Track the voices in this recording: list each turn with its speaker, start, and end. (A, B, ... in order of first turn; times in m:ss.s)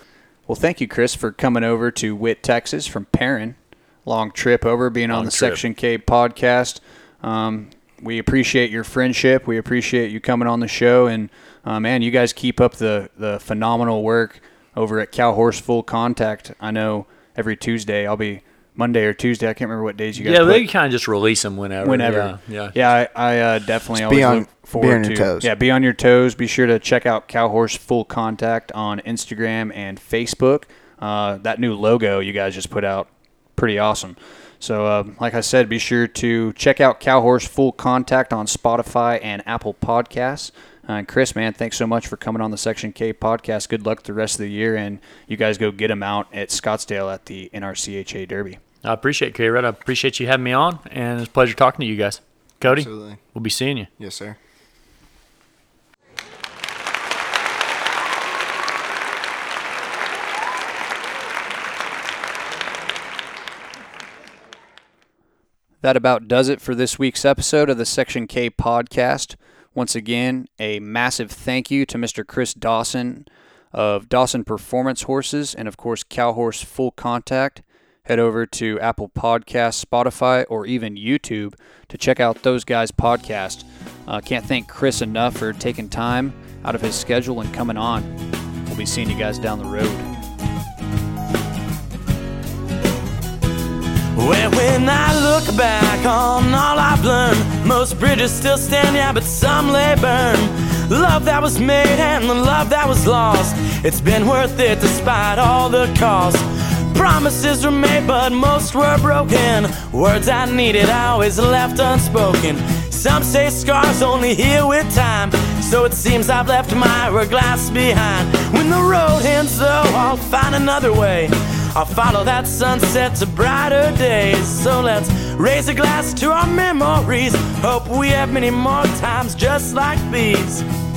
0:00.5-0:20.7 A
0:05.1-0:05.6 B
0:20.2-0:22.7 B
0:21.8-0:48.6 A
0:24.0-0:25.5 C
0:48.8-0:53.9 B
0:52.7-0:53.2 C
0:54.0-0:54.4 C
1:05.8-1:28.1 A
1:28.7-1:30.1 A
1:34.2-2:10.7 D